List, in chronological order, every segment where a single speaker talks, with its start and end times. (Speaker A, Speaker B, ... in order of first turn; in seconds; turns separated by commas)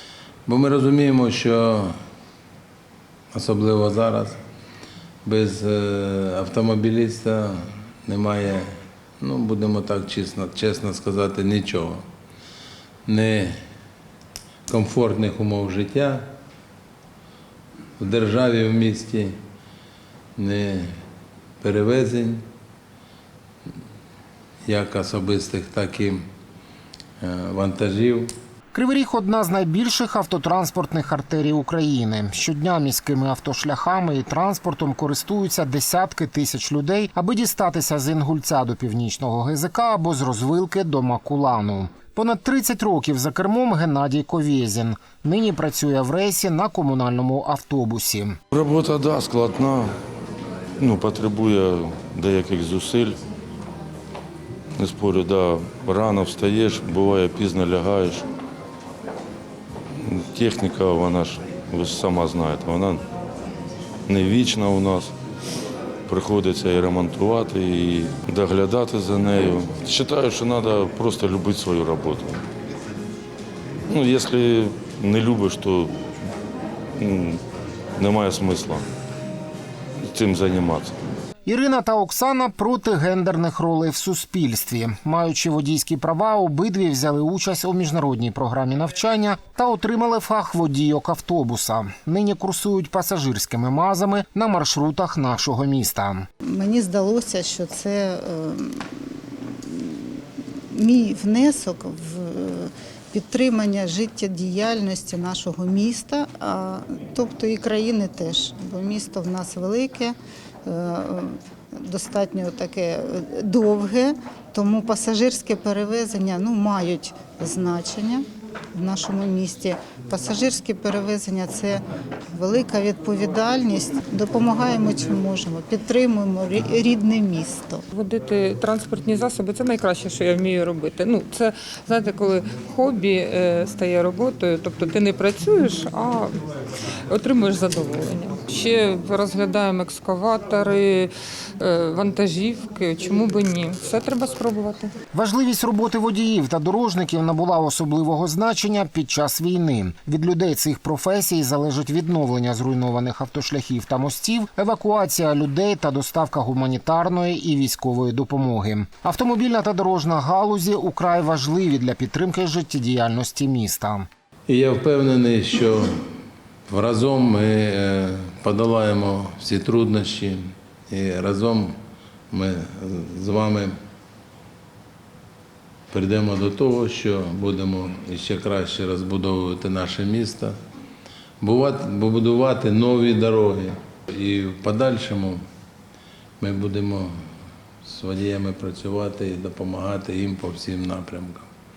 Speaker A: 0.5-1.9, Speaker A: 3.3-4.4, Speaker A: 5.2-12.0, Speaker A: 13.1-13.6, Speaker A: 14.7-16.3, Speaker A: 18.0-19.4, Speaker A: 20.4-20.9, Speaker A: 21.6-22.4, Speaker A: 24.6-26.2, Speaker A: 27.2-28.3, Speaker B: 28.7-48.4, Speaker C: 48.5-50.0, Speaker C: 50.8-53.2, Speaker C: 54.8-58.3, Speaker C: 60.0-63.0, Speaker C: 64.1-65.1, Speaker C: 66.1-72.4, Speaker C: 73.9-75.9, Speaker C: 77.0-77.4, Speaker C: 78.0-78.8, Speaker C: 80.0-81.0, Speaker B: 81.5-96.3, Speaker D: 96.4-127.8, Speaker E: 127.9-136.3, Speaker E: 137.1-144.9, Speaker B: 145.1-164.1, Speaker A: 164.5-166.0, Speaker A: 166.7-171.8, Speaker A: 172.3-173.7, Speaker A: 175.9-180.6, Speaker A: 181.4-185.4, Speaker A: 186.4-187.1, Speaker A: 187.8-191.5